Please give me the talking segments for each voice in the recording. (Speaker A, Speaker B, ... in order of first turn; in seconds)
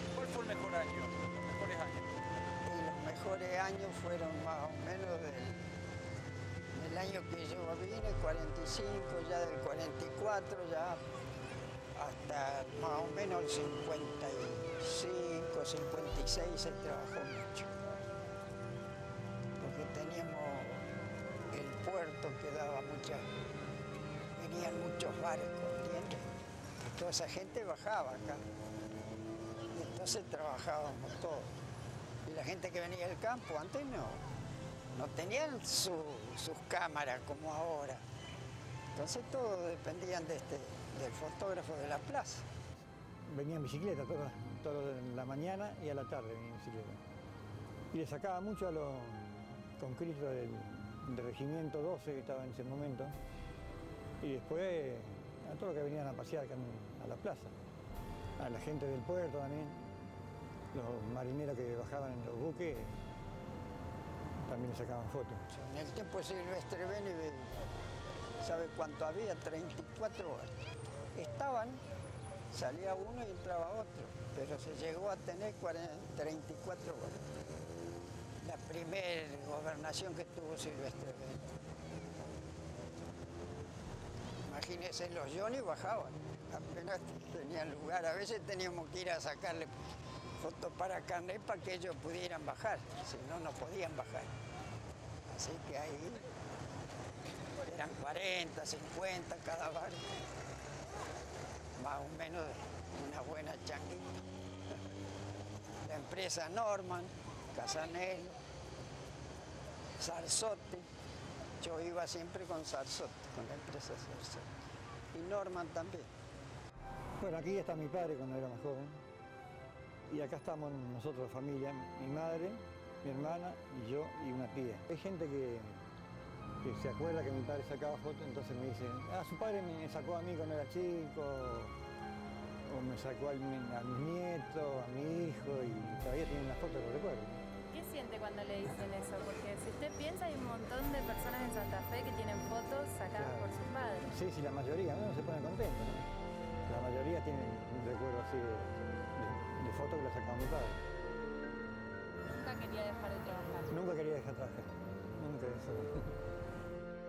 Speaker A: 0.1-2.1
Speaker B: 2.7-5.7, 6.7-11.0, 12.0-17.7, 19.6-20.8, 21.5-23.2, 24.4-26.3, 26.8-28.4, 29.7-31.5, 32.3-34.2, 35.0-38.0, 39.0-42.5, 65.5-67.6, 68.4-70.5, 71.2-71.8, 72.5-77.2, 78.4-81.5, 84.5-89.7, 90.4-94.3, 95.4-96.3, 97.7-100.1, 101.8-104.1, 105.8-108.4, 110.0-110.9, 111.6-114.5, 115.1-116.1
Speaker C: 43.3-47.0, 47.9-53.1, 54.2-57.5, 58.4-60.0, 60.7-63.0, 64.5-65.5, 117.2-119.0, 120.1-125.8, 126.6-131.8, 132.7-137.4, 143.1-146.1, 146.7-150.8, 153.7-156.1
Speaker D: 137.7-144.1, 152.4-153.7